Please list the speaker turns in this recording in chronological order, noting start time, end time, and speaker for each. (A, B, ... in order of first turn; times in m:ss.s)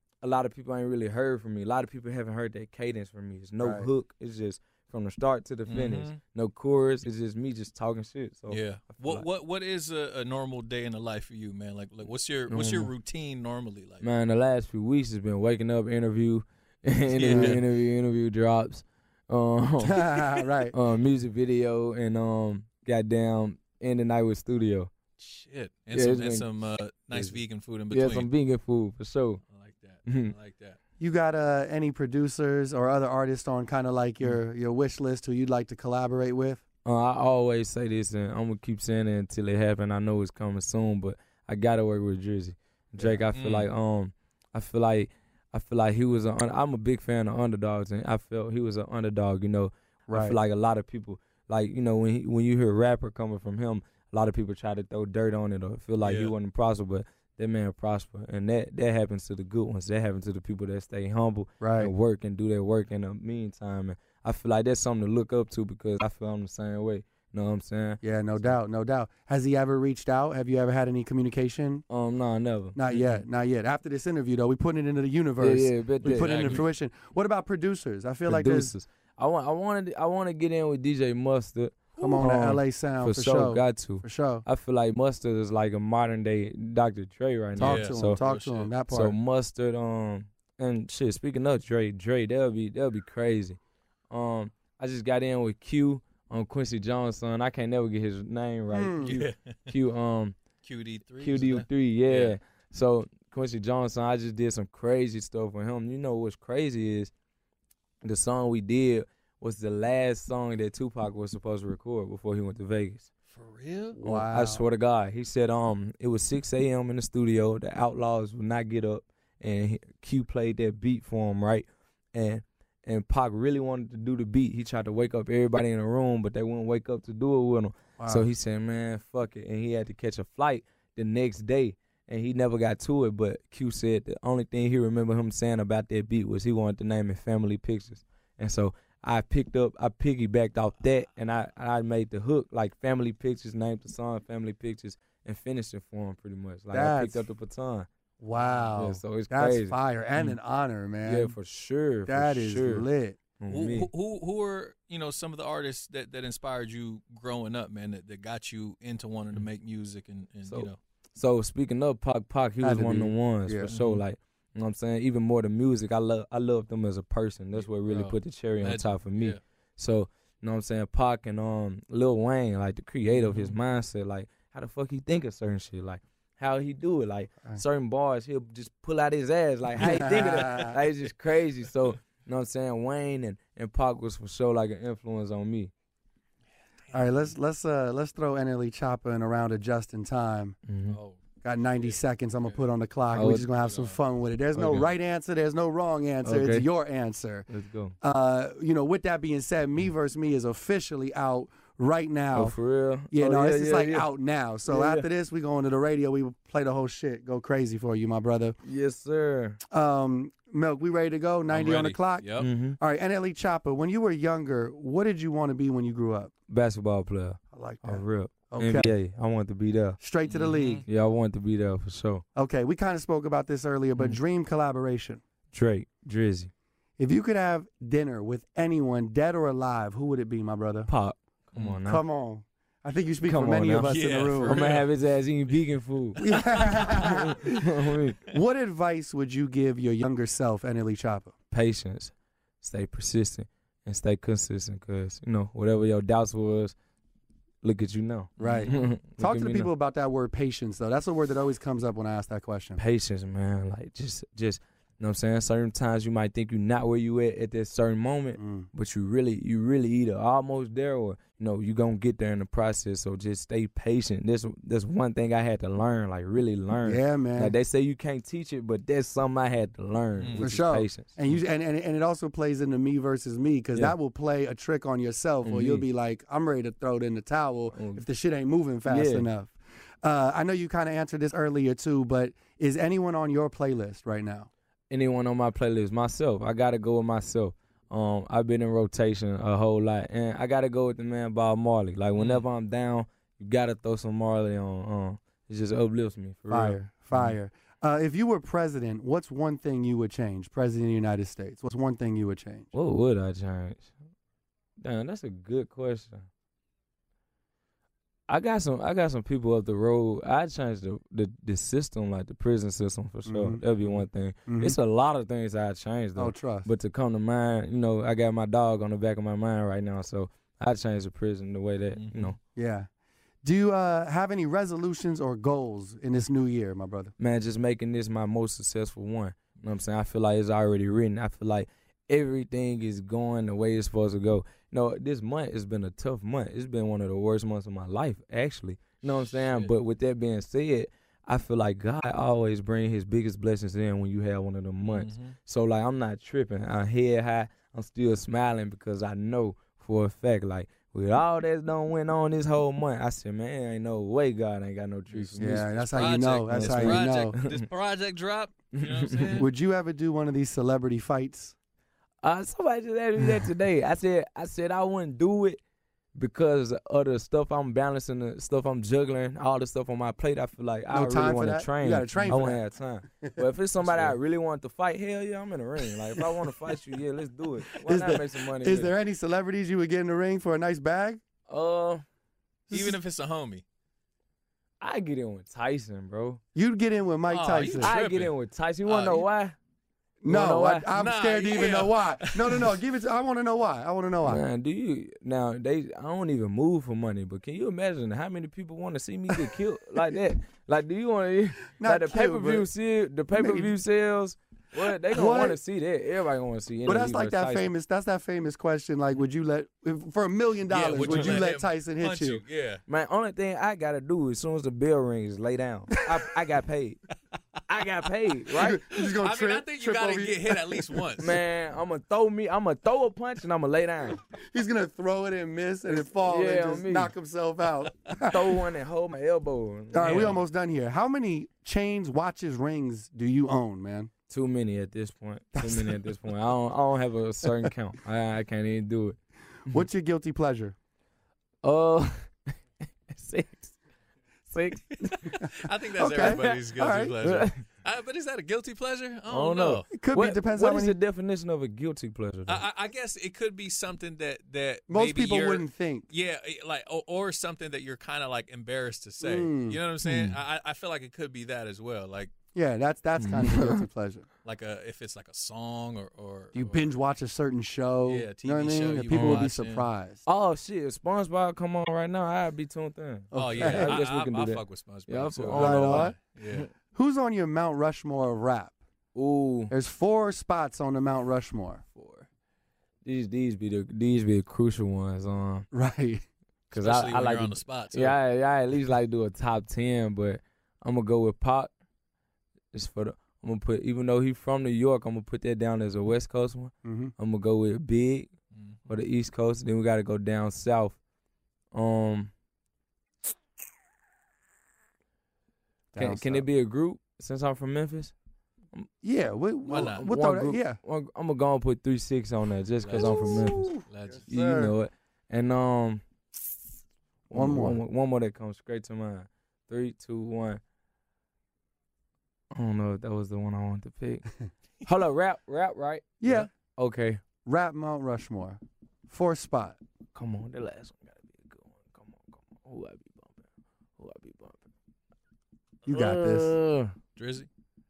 0:00.2-0:09.2 A
0:03.6-0:03.9 B
0:05.7-0:06.2 C
0:08.5-0:14.1 C
0:12.5-0:12.9 A
0:14.0-0:24.9 A
0:17.1-0:17.6 C
0:19.8-0:20.7 B
0:25.2-0:28.3 C
0:25.9-0:26.5 A
0:27.1-0:27.4 A
0:27.9-0:29.4 A
0:29.4-0:30.8 C
0:30.1-0:30.3 A
0:31.0-0:36.6 B
0:36.8-1:08.5 A
0:43.3-0:43.7 C
0:50.1-0:50.4 B
0:56.0-0:56.3 C
1:01.6-1:01.9 B
1:08.0-1:11.8 B
1:11.9-1:12.8 A
1:12.7-1:18.7 B
1:12.9-1:13.2 C
1:15.4-1:16.6 A
1:16.1-1:16.7 C
1:18.2-1:28.2 A
1:22.0-1:22.2 C
1:22.0-1:24.4 B
1:27.6-1:28.7 C
1:27.6-1:29.2 B
1:28.9-1:33.6 A
1:34.1-1:40.4 A
1:38.7-1:39.2 B
1:39.1-1:39.6 C
1:40.6-1:42.4 C
1:41.2-1:47.1 A
1:48.0-1:53.1 A
1:53.3-1:54.0 C
1:54.0-1:54.6 B
1:54.0-2:27.9 A
2:08.0-2:08.3 B
2:26.7-2:27.2 B
2:28.2-2:31.3 B
2:28.3-2:28.8 C
2:28.8-2:29.8 A
2:31.0-2:32.9 A
2:32.0-2:33.2 B
2:33.4-2:33.9 A
2:33.5-2:40.8 C
2:40.5-3:05.7 A
2:42.6-2:43.7 B
2:43.7-2:44.0 C
2:47.5-2:49.4 C
2:53.1-2:53.6 C
2:59.8-3:00.7 B
2:59.9-3:00.6 C
3:06.9-3:07.2 C
3:06.9-3:10.6 B
3:10.7-3:11.0 A
3:10.9-3:11.2 C
3:11.4-3:17.5 B
3:11.7-3:12.6 C
3:13.1-3:13.5 A
3:13.6-3:14.0 C
3:14.5-3:14.9 A
3:16.2-3:16.6 A
3:17.5-3:18.0 A
3:18.0-3:22.6 B
3:22.3-3:24.1 A
3:23.1-3:28.6 B
3:24.6-3:25.1 A
3:28.6-3:29.6 A
3:29.7-3:36.3 B
3:31.5-3:32.5 C
3:32.4-3:32.8 A
3:36.5-3:40.0 A
3:37.5-3:38.9 B
3:40.0-3:40.8 B
3:40.3-3:40.8 C
3:40.8-3:42.2 A
3:42.3-3:45.2 B
3:45.5-3:46.5 A
3:47.0-3:50.9 B
3:50.9-3:52.0 A
3:51.8-3:54.6 B
3:53.2-3:58.2 A
3:53.8-3:54.9 C
3:56.2-3:57.6 B
3:58.3-4:01.3 B
4:01.5-4:06.7 A
4:07.6-4:09.7 A
4:08.4-4:08.7 C
4:08.4-4:12.8 B
4:12.8-4:31.2 A
4:18.4-4:18.7 B
4:26.8-4:27.6 B
4:30.2-4:30.4 C
4:30.4-4:44.5 B
4:35.4-4:35.8 A
4:37.7-4:38.0 A
4:38.8-4:39.3 A
4:44.9-4:57.4 A
4:52.2-4:52.4 C
4:56.5-5:02.7 B
5:02.7-5:03.9 A
5:04.8-5:06.2 A
5:08.3-5:22.4 A
5:13.2-5:13.6 B
5:14.5-5:14.8 B
5:16.2-5:16.7 B
5:21.9-5:22.4 C
5:22.5-5:22.9 B
5:23.4-5:27.1 B
5:27.2-5:57.6 A
5:39.1-5:39.7 C
5:44.8-5:45.4 C
5:55.1-5:59.5 C
5:55.4-5:57.4 B
5:58.7-5:59.4 A
5:59.4-6:01.5 B
6:02.2-6:05.6 A
6:06.2-6:18.9 A
6:10.9-6:12.6 B
6:13.8-6:14.2 C
6:17.7-6:21.2 B
6:21.5-6:22.0 A
6:22.7-6:23.6 C
6:22.7-6:23.0 B
6:24.8-6:26.4 A
6:26.5-6:27.9 B
6:27.3-6:29.3 C
6:27.7-6:29.5 A
6:30.2-6:34.4 B
6:30.2-6:30.9 A
6:30.9-6:32.8 C
6:34.2-6:47.7 A
6:41.7-6:42.7 B
6:43.3-6:43.7 B
6:45.1-6:45.6 B
6:46.8-6:52.4 B
6:50.7-6:52.8 C
6:51.0-6:51.4 A
6:52.9-6:57.0 A
6:57.7-6:58.8 A
6:58.6-7:01.0 B
6:58.9-7:01.4 C
7:01.2-7:04.2 A
7:04.2-7:08.6 B
7:05.9-7:07.1 A
7:08.2-7:10.4 A
7:09.9-7:14.1 B
7:10.0-7:10.4 C
7:14.3-7:19.2 A
7:15.5-7:16.0 B
7:19.6-7:20.7 B
7:21.6-7:22.4 A
7:23.1-7:23.8 A
7:24.5-7:25.3 A
7:25.1-7:29.9 C
7:26.0-7:27.2 B
7:27.2-7:27.6 A
7:29.3-7:32.6 A
7:29.9-7:31.0 B
7:32.5-7:42.3 C
7:34.9-7:36.1 B
7:39.2-7:39.8 B
7:40.0-7:40.4 A
7:42.5-7:44.2 B
7:43.2-7:43.8 A
7:44.4-7:46.9 C
7:46.5-7:50.2 B
7:48.0-7:49.8 C
7:49.1-7:49.4 A
7:50.2-7:56.6 A
7:53.3-7:54.0 B
7:53.3-7:56.7 C
7:55.5-7:56.2 B
7:56.9-7:58.8 B
7:59.1-7:59.7 A
7:59.7-8:01.8 B
8:02.0-8:02.2 C
8:03.0-8:05.7 A
8:05.7-8:06.2 B
8:06.7-8:08.2 C
8:06.7-8:11.7 A
8:12.7-8:18.3 A
8:16.8-8:17.1 B
8:18.5-8:18.9 C
8:18.9-8:21.0 A
8:21.7-8:22.3 A
8:25.9-8:26.5 B
8:26.0-8:28.1 A
8:29.0-8:30.8 B
8:29.7-8:30.1 C
8:29.7-8:33.7 A
8:32.8-8:34.3 C
8:33.0-8:34.7 B
8:34.3-8:36.0 A
8:37.3-8:40.6 A
8:37.3-8:37.8 B
8:42.5-8:44.3 A
8:44.8-8:47.2 A
8:46.2-8:46.5 B
8:47.4-8:49.8 B
8:50.1-8:53.5 A
8:54.0-8:54.6 A
8:55.8-8:56.6 B
8:55.9-8:57.0 A
8:57.2-8:57.5 C